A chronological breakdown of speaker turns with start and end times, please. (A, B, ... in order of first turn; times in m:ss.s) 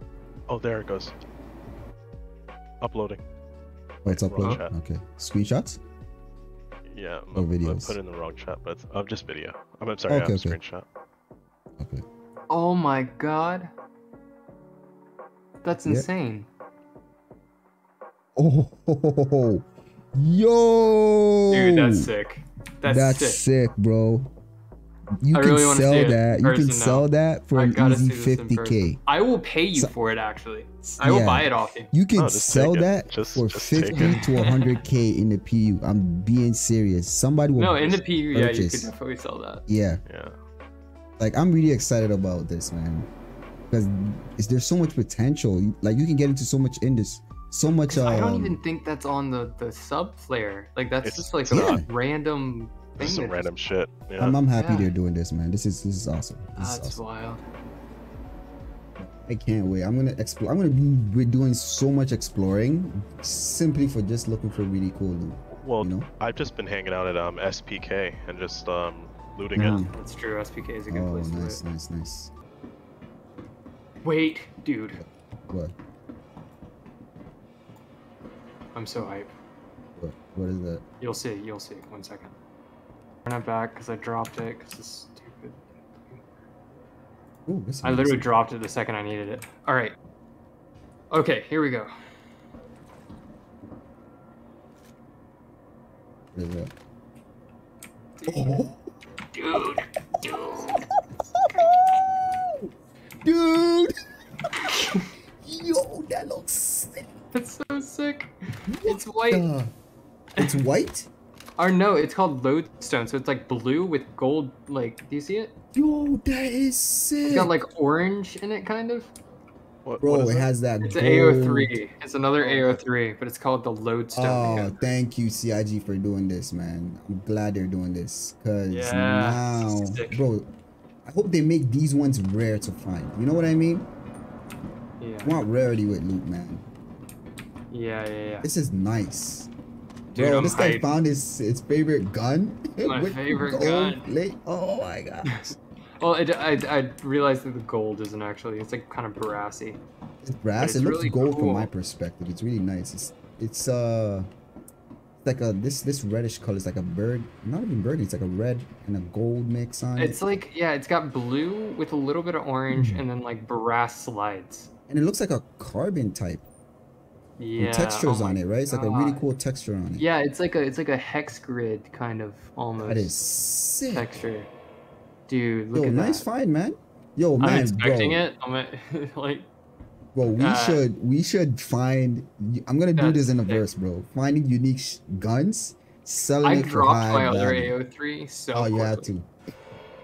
0:00.5-0:01.1 A
0:02.8-0:03.2 A
0:04.0-0:04.7 A
0:04.0-0:05.8 B
0:06.9-0:10.8 A
0:07.3-0:08.0 B
0:10.1-0:10.6 B
0:11.8-0:12.0 B
0:12.5-0:13.7 C
0:15.6-0:16.5 C
0:18.4-0:22.1 B
0:21.5-0:23.4 C
0:22.8-0:24.3 B
0:25.2-0:29.0 B
0:25.3-0:31.9 C
0:31.0-0:38.9 B
0:32.1-0:34.3 A
0:33.9-0:34.8 C
0:37.6-0:39.6 C
0:39.7-0:40.0 B
0:40.0-0:40.4 A
0:41.2-0:43.1 B
0:43.7-0:48.6 B
0:47.9-0:53.5 C
0:51.0-0:51.8 A
0:51.5-0:51.9 B
0:53.0-0:54.4 A
0:54.2-0:57.0 B
0:54.5-0:54.9 C
0:56.6-0:57.4 C
0:59.0-1:06.1 B
1:05.5-1:09.8 A
1:09.5-1:09.9 B
1:09.5-1:11.6 C
1:10.9-1:12.3 B
1:14.0-1:15.0 C
1:15.0-1:15.7 B
1:18.7-1:19.3 C
1:20.0-1:20.8 B
1:21.0-1:22.3 C
1:23.2-1:26.2 C
1:27.5-1:28.3 B
1:27.8-1:29.9 C
1:31.1-1:31.9 C
1:36.3-1:36.7 B
1:38.2-1:38.6 C
1:38.3-1:38.8 B
1:39.3-1:40.8 C
1:40.2-1:40.6 B
1:41.4-1:42.7 B
1:43.2-1:43.9 B
1:44.7-1:45.1 C
1:45.4-1:47.1 B
1:47.3-1:48.3 C
1:48.7-1:49.7 B
1:48.8-1:49.5 C
1:50.4-1:50.6 C
1:50.4-1:51.1 B
1:51.6-1:55.5 C
1:55.7-1:57.5 B
1:57.2-1:59.1 C
1:59.8-2:00.5 A
2:00.0-2:01.8 B
2:00.8-2:04.8 C
2:02.4-2:02.8 B
2:04.1-2:10.5 B
2:08.7-2:10.3 C
2:11.0-2:13.9 B
2:15.0-2:15.4 C
2:15.2-2:16.6 B
2:17.7-2:18.5 C
2:18.4-2:19.5 B
2:20.1-2:20.9 C
2:20.1-2:25.5 B
2:22.8-2:24.0 C
2:25.3-2:29.8 C
2:30.2-2:34.3 B
2:30.6-2:31.7 C
2:35.2-2:40.2 B
2:40.0-2:44.7 C
2:42.7-2:43.0 B
2:44.9-2:46.4 B
2:47.4-2:49.2 C
2:47.6-2:50.1 B
2:50.0-2:53.1 C
2:52.8-2:54.2 B
2:53.9-2:54.5 C
2:55.3-2:56.3 C
2:55.7-2:58.2 B
2:57.4-2:59.5 C
3:00.1-3:07.8 B
3:00.4-3:00.8 C
3:03.0-3:03.7 C
3:06.4-3:09.1 C
3:08.5-3:09.3 B